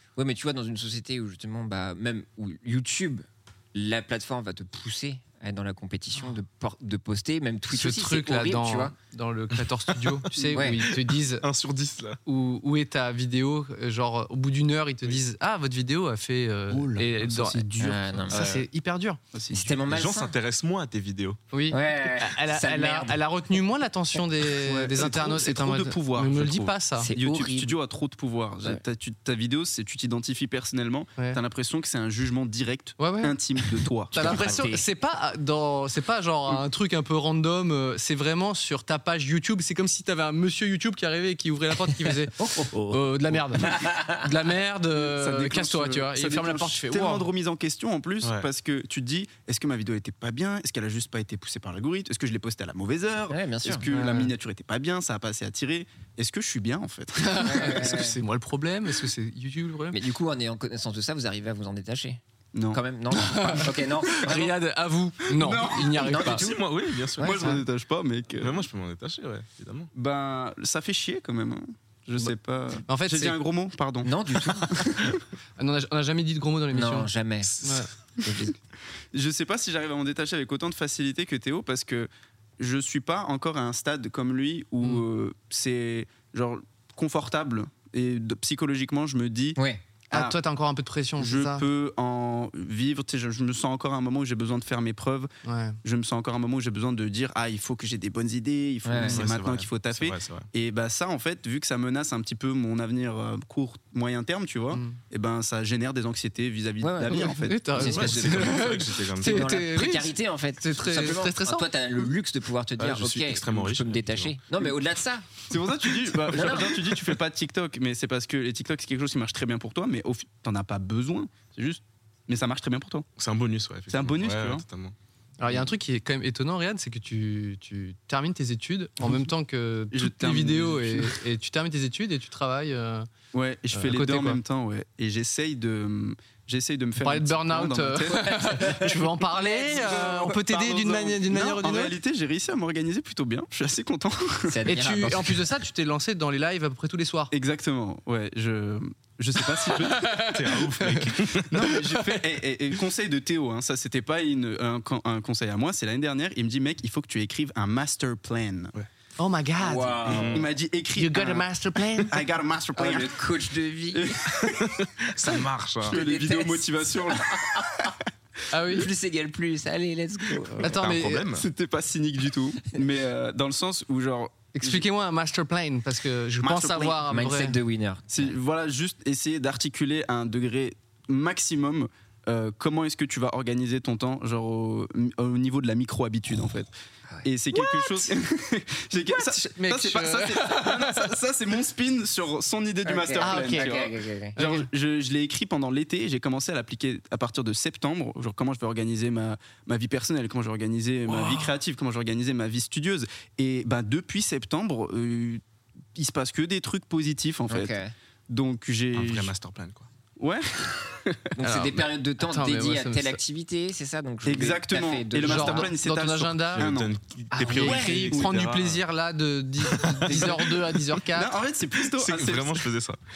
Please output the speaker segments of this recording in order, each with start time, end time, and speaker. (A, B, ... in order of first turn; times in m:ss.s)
0:00.2-0:08.9 A
0:07.7-0:11.4 B
0:10.1-0:12.2 C
0:10.5-0:10.8 A
0:12.2-0:19.2 B
0:16.7-0:18.3 D
0:17.8-0:18.4 A
0:18.3-0:18.6 C
0:19.3-0:19.9 D
0:19.5-0:20.3 A
0:19.9-0:21.4 C
0:21.5-0:27.1 B
0:21.7-0:23.2 A
0:24.6-0:34.4 D
0:27.0-0:27.8 A
0:33.0-0:33.4 B
0:34.1-0:47.3 B
0:34.1-0:34.8 A
0:42.4-0:42.7 A
0:43.7-0:44.2 A
0:44.9-0:57.9 D
0:53.3-0:53.9 A
0:53.9-0:54.3 B
0:57.2-1:00.0 B
0:57.4-0:58.2 A
0:59.9-1:04.5 A
1:02.5-1:02.8 D
1:03.1-1:06.4 B
1:04.2-1:04.5 D
1:05.2-1:06.4 D
1:05.8-1:07.4 A
1:06.4-1:07.4 C
1:07.2-1:08.6 D
1:08.4-1:09.9 C
1:09.9-1:15.1 D
1:12.9-1:13.4 B
1:14.0-1:15.1 A
1:15.6-1:17.1 B
1:16.7-1:17.5 A
1:17.5-1:17.8 C
1:17.6-1:17.9 B
1:18.2-1:18.5 A
1:19.1-1:29.6 D
1:29.6-1:29.8 A
1:30.1-1:30.4 D
1:30.1-1:31.6 B
1:31.2-1:35.3 D
1:35.4-1:35.8 B
1:35.8-1:48.1 D
1:38.8-1:39.2 A
1:39.1-1:40.5 C
1:44.7-1:45.0 B
1:46.8-1:48.6 A
1:47.1-1:51.7 B
1:47.8-1:49.6 C
1:49.2-1:55.2 A
1:52.8-1:54.3 C
1:55.5-2:03.0 D
1:56.3-1:56.8 A
2:03.2-2:04.9 C
2:03.9-2:04.6 D
2:05.4-2:13.1 B
2:09.9-2:11.2 D
2:13.3-2:24.6 D
2:13.7-2:14.4 B
2:17.0-2:21.9 B
2:24.4-2:25.4 A
2:24.6-2:27.3 B
2:27.3-2:30.1 D
2:29.5-2:32.3 B
2:30.2-2:31.5 C
2:31.5-2:38.7 D
2:39.2-2:40.1 B
2:39.6-2:40.4 A
2:40.0-2:43.2 D
2:40.1-2:40.4 C
2:40.9-2:42.2 B
2:42.7-2:44.2 A
2:43.9-2:44.8 D
2:44.6-2:46.0 C
2:45.8-2:48.0 D
2:45.9-2:47.9 A
2:48.5-2:48.9 B
2:48.7-2:50.8 A
2:50.4-2:54.9 D
2:50.6-2:51.3 B
2:50.7-2:51.4 C
2:54.5-2:57.6 B
2:56.4-2:57.3 D
2:57.0-2:58.4 A
2:58.1-3:06.7 D
3:07.2-3:25.4 D
3:07.5-3:08.1 B
3:09.1-3:11.1 B
3:12.8-3:14.4 A
3:13.2-3:14.7 B
3:21.1-3:21.5 B
3:25.9-3:27.8 D
3:27.5-3:27.9 A
3:28.3-3:29.3 D
3:28.9-3:29.9 C
3:30.2-3:31.2 D
3:31.3-3:35.7 A
3:31.4-3:33.2 B
3:34.2-3:36.9 D
3:35.2-3:36.7 B
3:36.5-3:38.8 C
3:37.3-3:38.1 A
3:37.4-3:41.3 B
3:37.9-3:38.3 D
3:39.7-3:40.6 C
3:40.0-3:40.5 D
3:41.1-3:42.7 D
3:41.9-3:43.0 C